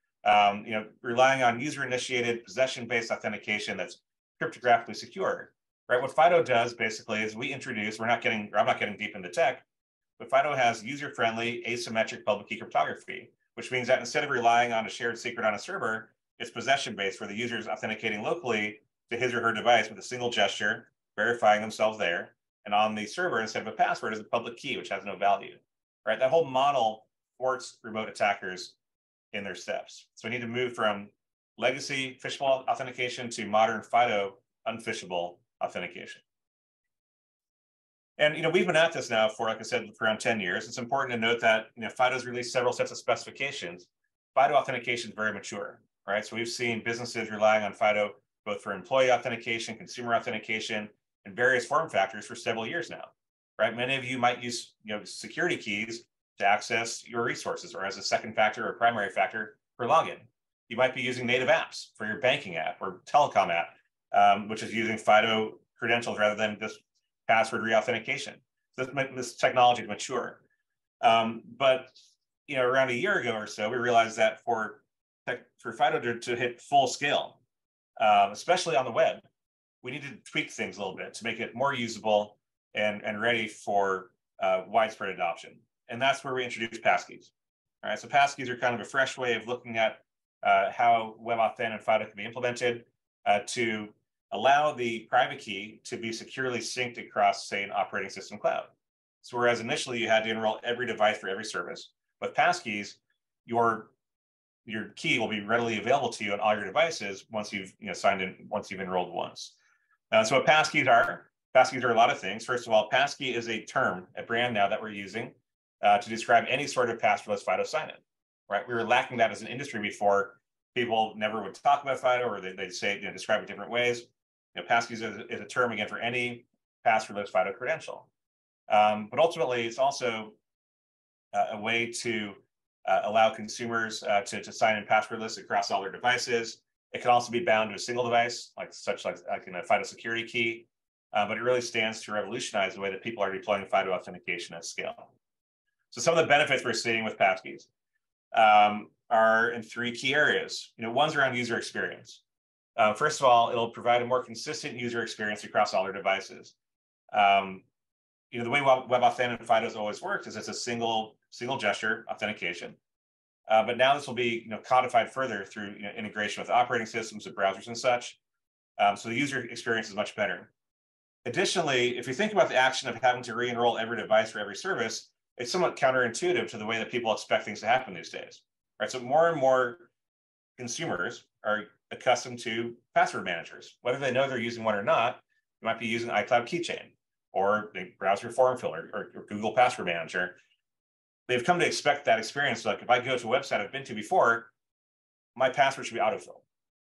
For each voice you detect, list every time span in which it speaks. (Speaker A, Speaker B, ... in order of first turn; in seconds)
Speaker A: 0.2-9.6, 10.2-28.7, 29.3-36.2, 38.2-70.4, 71.0-71.9, 72.5-77.4, 78.0-79.2, 79.8-87.3, 87.8-98.7, 99.2-103.9, 104.7-109.5, 110.1-128.1, 128.7-130.3, 131.3-145.1, 145.9-147.7, 148.3-152.2, 152.8-156.5, 157.1-157.6, 158.3-162.8, 163.5-168.2, 168.8-170.5, 171.2-179.9, 180.6-190.4, 191.3-194.5, 195.3-196.4